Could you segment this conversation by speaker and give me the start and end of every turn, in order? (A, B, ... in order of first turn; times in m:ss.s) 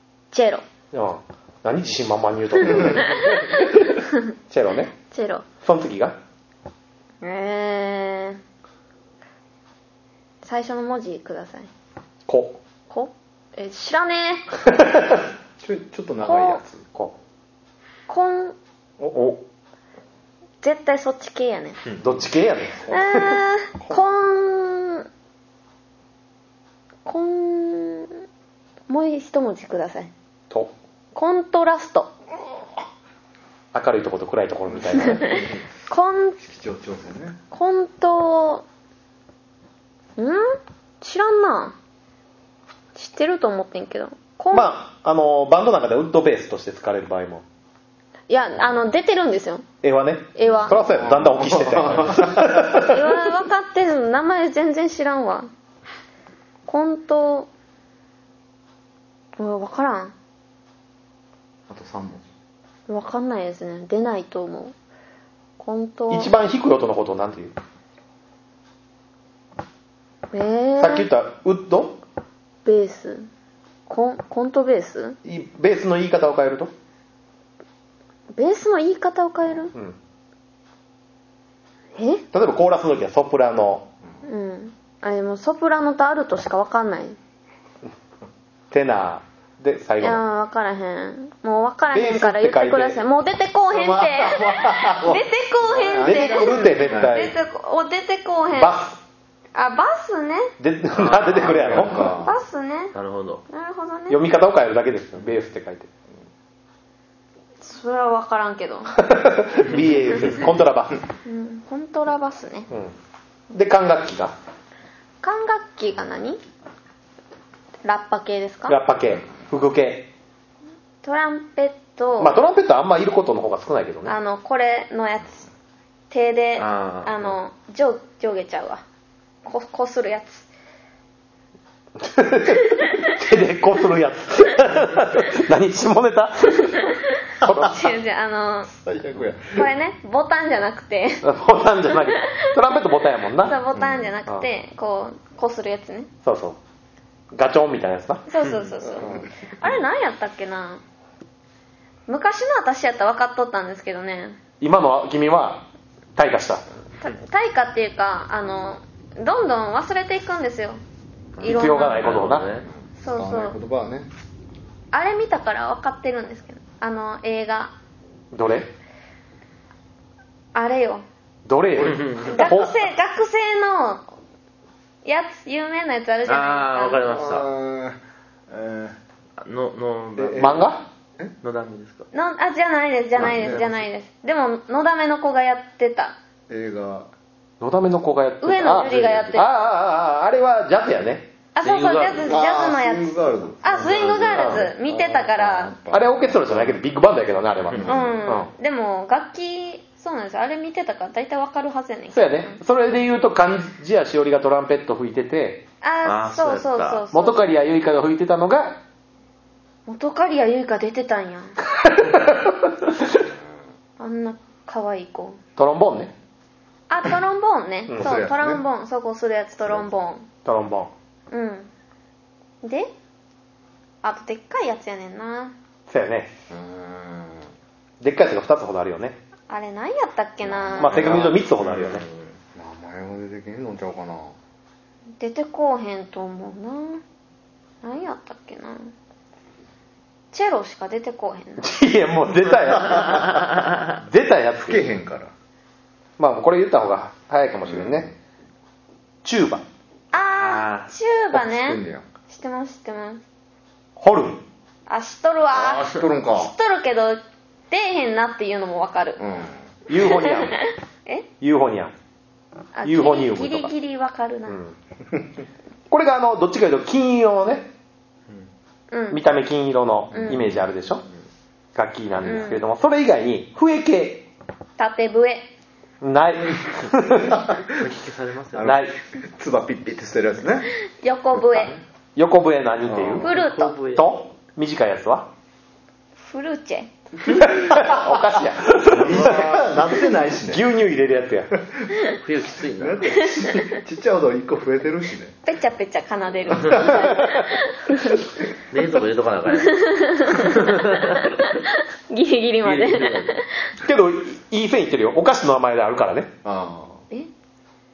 0:00.3-0:00.6 A
0:00.9-0:04.0 B
0:02.6-0:04.3 A
0:04.5-0:04.9 B
0:05.0-0:05.4 A
0:05.6-0:06.2 B
0:07.2-0:08.4 A
0:10.4-0:11.7 A
0:12.2-0:12.6 B
0:12.9-0:14.5 A
0:14.7-0:15.2 B
0:15.6-0:16.8 C
0:16.2-0:16.6 A
0:18.1-0:18.6 A
0:19.1-0:19.4 B
0:20.6-0:21.8 A
0:22.0-0:23.4 B
0:22.9-0:25.0 A
0:27.0-0:28.2 A
0:28.9-0:30.1 A
0:31.1-0:32.1 A
0:33.7-0:35.4 B
0:34.7-0:35.6 C
0:34.9-0:36.4 A
0:36.4-0:37.4 C
0:37.5-0:38.6 A
0:40.2-0:41.7 A
0:42.9-0:44.7 A
0:44.5-0:47.4 B
0:48.3-0:49.6 A
0:49.8-0:53.2 B
0:50.3-0:50.8 A
0:50.6-0:52.8 C
0:52.8-0:55.5 A
0:56.7-0:57.5 A
0:59.4-1:00.1 A
1:01.7-1:02.3 C
1:02.9-1:04.7 A
1:05.6-1:06.3 A
1:06.1-1:07.5 B
1:10.3-1:11.1 A
1:10.8-1:12.0 B
1:12.6-1:13.3 A
1:13.9-1:15.2 A
1:15.2-1:16.7 B
1:18.3-1:19.7 A
1:22.0-1:22.2 A
1:22.3-1:23.9 B
1:24.2-1:27.2 A
1:28.7-1:30.2 B
1:30.0-1:38.8 A
1:31.9-1:33.0 B
1:33.7-1:37.2 C
1:36.0-1:37.3 B
1:38.5-1:39.0 B
1:39.5-1:40.5 A
1:40.6-1:42.2 B
1:41.0-1:41.8 D
1:41.2-1:42.3 C
1:42.2-1:42.9 A
1:42.9-1:43.4 D
1:43.5-1:44.2 A
1:44.1-1:45.9 B
1:47.6-1:49.0 A
1:49.0-1:51.0 B
1:51.2-1:52.7 A
1:53.5-1:54.3 B
1:55.2-1:56.4 A
1:57.8-1:58.8 A
1:58.7-2:00.1 B
2:01.0-2:02.4 A
2:02.2-2:04.1 B
2:04.0-2:05.5 A
2:06.1-2:08.8 A
2:06.6-2:07.2 D
2:09.4-2:10.5 A
2:12.0-2:17.8 B
2:12.6-2:13.1 A
2:16.7-2:18.7 A
2:18.7-2:19.7 C
2:19.5-2:21.3 A
2:21.2-2:23.6 B
2:21.9-2:22.6 A
2:23.4-2:26.1 A
2:26.2-2:26.6 B
2:27.3-2:28.2 B
2:28.3-2:30.8 A
2:29.0-2:29.3 C
2:32.1-2:34.4 A
2:34.6-2:36.6 B
2:37.0-2:40.8 A
2:41.4-2:42.7 D
2:41.4-2:42.1 A
2:41.4-2:42.5 B
2:42.7-2:44.1 C
2:43.0-2:43.6 A
2:44.9-2:47.7 A
2:48.3-2:48.7 B
2:50.5-2:51.0 A
2:51.4-2:52.7 B
2:51.8-2:52.4 D
2:52.2-2:54.0 A
2:55.0-2:57.0 A
2:56.2-2:57.5 D
2:57.0-2:58.0 C
2:58.5-2:59.0 C
2:59.4-3:00.7 D
3:00.2-3:01.3 C
3:00.4-3:00.8 B
3:01.4-3:02.1 D
3:02.1-3:06.2 A
3:03.2-3:03.8 C
3:06.5-3:07.1 C
3:07.6-3:11.3 B
3:08.4-3:09.6 A
3:11.5-3:15.8 A
3:11.6-3:12.4 D
3:12.3-3:16.8 C
3:13.8-3:14.5 D
3:14.3-3:14.6 B
3:15.9-3:18.5 B
3:17.7-3:18.2 C
3:17.8-3:22.6 A
3:22.1-3:25.6 B
3:25.8-3:27.5 A
3:26.0-3:27.0 D
3:27.1-3:28.8 B
3:29.8-3:31.6 A
3:31.8-3:33.1 B
3:34.0-3:35.4 A
3:35.6-3:36.1 B
3:36.9-3:40.3 A
3:37.9-3:38.2 B
3:38.0-3:38.6 C
3:40.4-3:40.9 B
3:41.3-3:41.7 A
3:42.6-3:42.9 A
3:44.0-3:45.5 A
3:45.9-3:46.3 B
3:46.5-3:47.4 C
3:48.0-3:49.2 B
3:49.5-3:51.3 A
3:50.4-3:51.4 C
3:50.8-3:52.0 B
3:51.6-3:52.2 D
3:52.5-3:54.3 C
3:55.2-3:57.0 A
3:57.8-3:58.9 A
4:00.3-4:01.7 A
4:01.6-4:04.9 B
4:04.6-4:05.3 C
4:06.2-4:08.1 B
4:07.6-4:08.1 C
4:09.2-4:09.6 B
4:10.1-4:13.2 A
4:10.3-4:10.9 D
4:11.3-4:12.0 C
4:14.0-4:14.4 B
4:14.9-4:19.2 A
4:15.5-4:16.5 C
4:19.2-4:19.6 C
4:19.9-4:20.6 B
4:20.0-4:21.3 A
4:21.4-4:21.9 B
4:22.7-4:24.6 A
4:22.8-4:23.7 B
4:24.5-4:24.7 B
4:25.9-4:27.7 B
4:28.9-4:29.2 A
4:29.1-4:31.0 B
4:30.1-4:30.4 A
4:30.2-4:30.4 C
4:31.7-4:34.3 B
4:32.2-4:32.6 A
4:34.8-4:35.5 A
4:36.0-4:37.4 B
4:37.2-4:37.8 C
4:37.7-4:38.7 D
4:38.5-4:40.7 C
4:38.6-4:39.0 B
4:41.0-4:41.8 A
4:42.2-4:45.3 B
4:42.8-4:43.2 C
4:43.2-4:43.8 A
4:43.2-4:44.1 D
4:46.2-4:47.5 A
4:47.4-4:49.9 B
4:47.4-4:48.0 C
4:48.9-4:50.6 C
4:49.1-4:49.5 D
4:50.5-4:51.5 B
4:51.6-4:51.9 C
4:52.1-4:53.1 D
4:52.8-4:55.4 C
4:53.3-4:53.7 A
4:55.4-4:58.3 A
4:56.5-4:57.2 C
4:57.0-4:57.5 B
4:58.7-5:01.3 D
4:59.5-5:03.6 A
5:02.6-5:03.3 D
5:03.8-5:06.3 B
5:06.4-5:07.0 C